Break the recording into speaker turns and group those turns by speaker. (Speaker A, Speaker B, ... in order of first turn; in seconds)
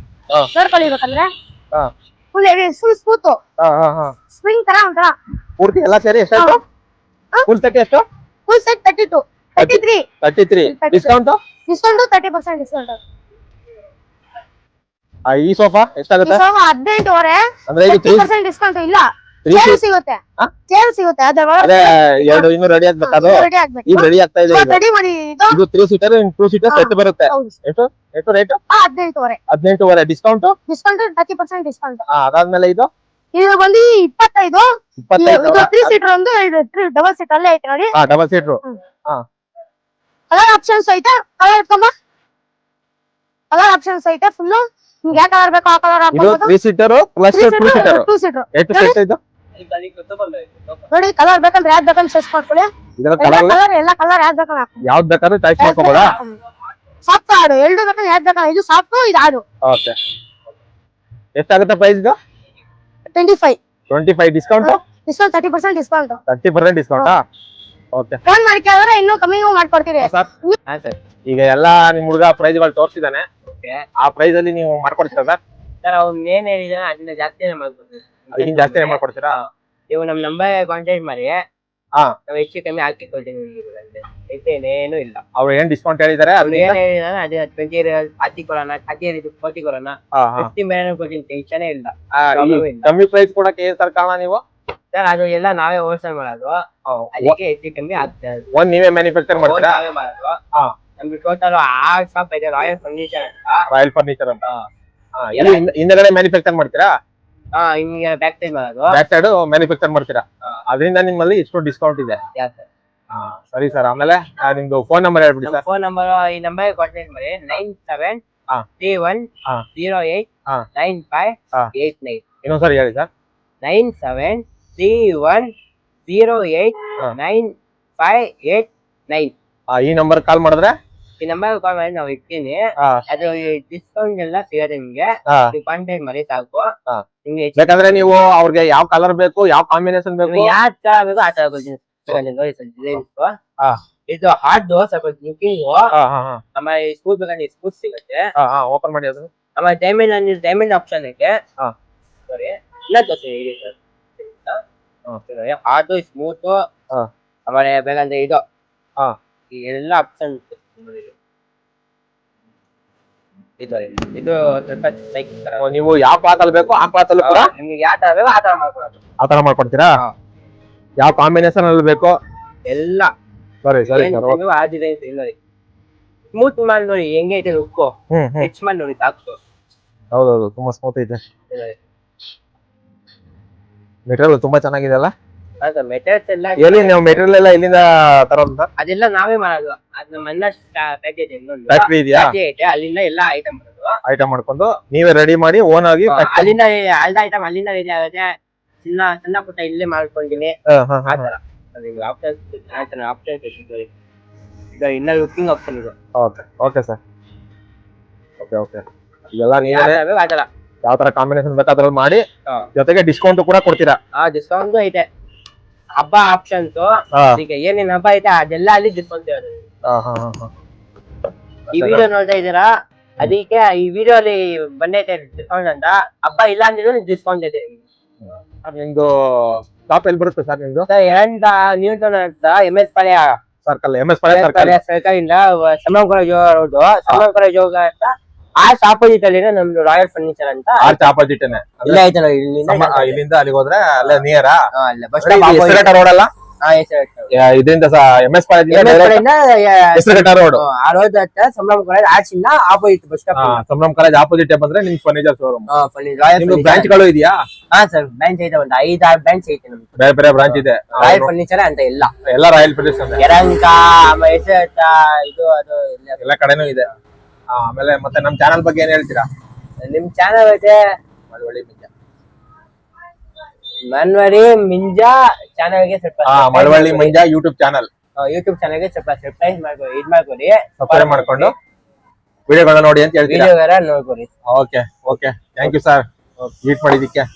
Speaker A: 0.5-1.3, 2.3-3.4, 4.3-5.1, 6.3-6.6, 8.5-10.1, 10.7-11.2, 11.7-13.0, 16.2-22.5, 23.0-25.6, 26.7-27.6, 28.7-29.4, 30.5-32.0, 33.3-37.9, 40.3-41.9, 43.5-46.5, 47.3-49.0, 50.9-54.8, 55.6-56.3, 57.0-59.4, 63.1-63.6, 64.6-66.2, 68.2-70.6
Speaker B: 3.6-4.1, 5.6-6.6, 7.5-8.0, 9.6-11.4, 15.3-16.4, 17.7-18.3, 19.4-19.8, 21.6-24.8, 25.5-28.6, 29.5-30.5, 32.1-32.9, 35.0-35.9, 37.9-39.2, 46.1-49.2, 53.0-53.6, 54.8-56.1, 59.6-60.0, 61.4-62.1, 63.9-64.8, 66.3-67.2, 67.9-68.2, 70.0-70.3, 71.3-73.3, 74.0-75.4, 78.3-79.4, 85.4-86.8, 90.1-90.5, 92.1-94.4, 96.9-97.4, 98.5-99.8, 103.7-104.4, 105.2-106.9, 108.9-112.2, 113.1-115.6, 122.4-123.1, 129.7-130.8, 135.3-135.5, 137.6-140.6, 145.9-146.4, 148.4-149.3, 165.6-167.5, 169.2-170.0, 171.0-172.1, 173.6-174.4, 178.1-178.5, 180.1-181.2, 184.1-185.1, 186.6-188.7, 191.7-192.3, 194.0-196.5, 200.7-201.3, 206.2-207.0, 208.4-210.0, 210.8-212.2, 212.8-214.0, 217.2-217.4, 219.9-220.5, 221.7-222.1, 228.6-230.9, 233.7-234.8, 240.8-242.0, 242.7-244.6, 245.2-246.3, 247.3-249.2, 249.9-250.6, 253.3-255.7, 256.4-257.4, 260.0-261.3, 262.2-263.2, 266.2-266.9, 267.5-269.3, 271.3-271.9, 276.2-277.9, 280.8-281.5, 282.5-283.5, 284.5-286.1, 286.6-287.3
Speaker C: 49.6-50.8, 70.7-71.0, 75.8-81.4, 82.3-85.2, 86.4-92.9, 94.9-96.6, 97.1-98.5, 99.4-100.4, 101.0-103.7, 105.4-105.6, 107.6-109.0, 112.4-112.7, 115.5-118.2, 118.8-122.2, 123.6-125.5, 126.1-129.3, 131.2-136.7, 137.2-138.1, 140.3-143.3, 144.1-145.8, 146.6-148.3, 149.6-151.4, 152.3-153.8, 155.3-156.6, 157.5-158.4, 159.5-161.1, 163.6-165.7, 167.2-169.0, 172.7-173.1, 173.9-175.3, 176.3-179.4, 181.5-181.8, 185.6-186.9, 188.8-194.0, 196.1-198.3, 198.8-200.6, 201.1-203.9, 204.8-205.9, 209.6-210.5, 214.2-215.1, 216.0-219.5, 221.7-227.8, 230.9-233.3, 234.3-241.1, 241.9-243.2, 244.8-245.9, 246.6-247.3, 248.7-253.6, 255.7-257.1, 257.7-259.9, 260.4-262.1, 263.2-266.3, 269.8-270.8, 273.9-277.2, 278.2-281.5, 283.3-284.3